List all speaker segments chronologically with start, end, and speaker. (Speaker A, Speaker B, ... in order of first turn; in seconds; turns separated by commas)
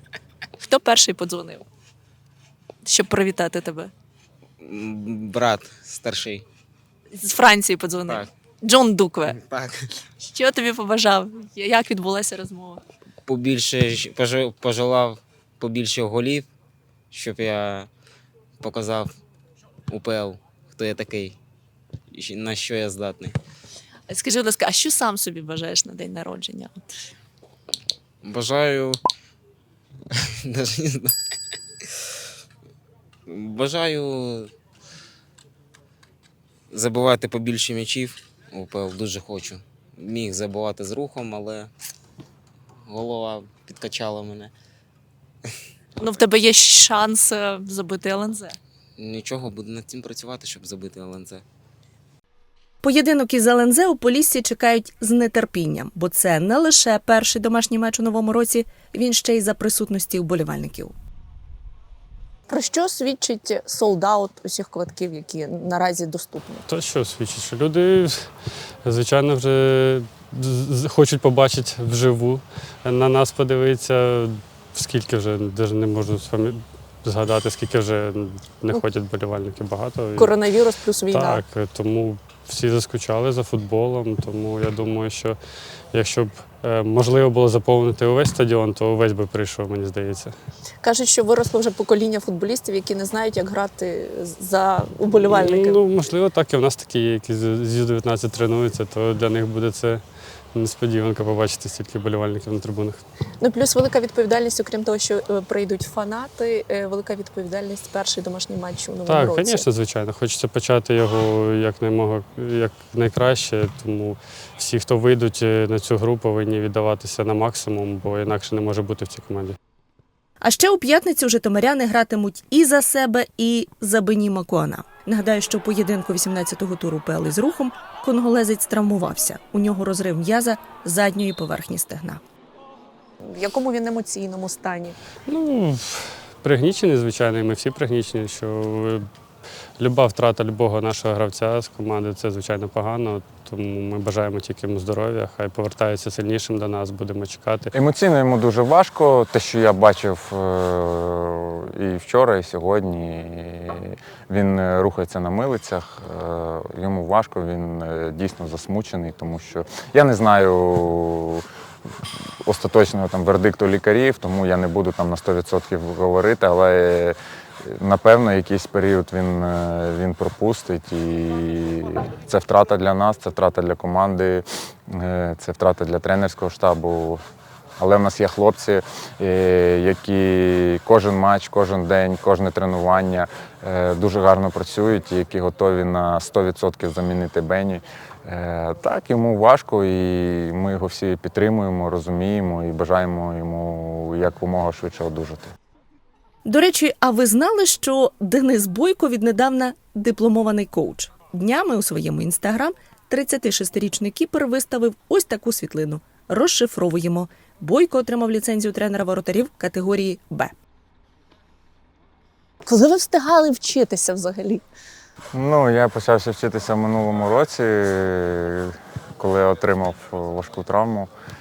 Speaker A: 0.6-1.7, Speaker A: 2.9-3.9, Speaker B: 4.6-6.5, Speaker A: 7.1-9.3, Speaker B: 9.3-9.9, Speaker A: 10.3-12.8, Speaker B: 13.3-16.5, Speaker B: 17.1-17.9, Speaker B: 18.6-19.1, Speaker B: 19.9-21.4, Speaker B: 22.1-23.4, Speaker A: 24.1-26.9, Speaker B: 28.2-29.0, Speaker B: 30.1-31.1, Speaker B: 33.3-34.5, Speaker B: 36.7-41.7, Speaker B: 42.9-44.5, Speaker A: 46.0-48.6, Speaker B: 49.0-51.4, Speaker C: 52.8-60.9, Speaker A: 62.5-66.6, Speaker D: 66.7-68.3, Speaker D: 68.8-80.4, Speaker A: 80.2-81.4, Speaker D: 81.1-85.4, Speaker D: 85.9-90.3, Speaker A: 90.8-95.8, Speaker D: 95.2-100.0, Speaker D: 100.5-103.0, Speaker A: 103.4-109.7, Speaker D: 109.0-119.6, Speaker C: 120.4-132.2, Speaker A: 133.2-135.0, Speaker D: 135.3-139.1, Speaker D: 139.8-147.7, Speaker E: 147.7-161.4, Speaker E: 162.4-177.2, Speaker E: 177.8-195.5, Speaker C: 196.5-210.5, Speaker A: 212.7-214.6, Speaker E: 215.3-221.1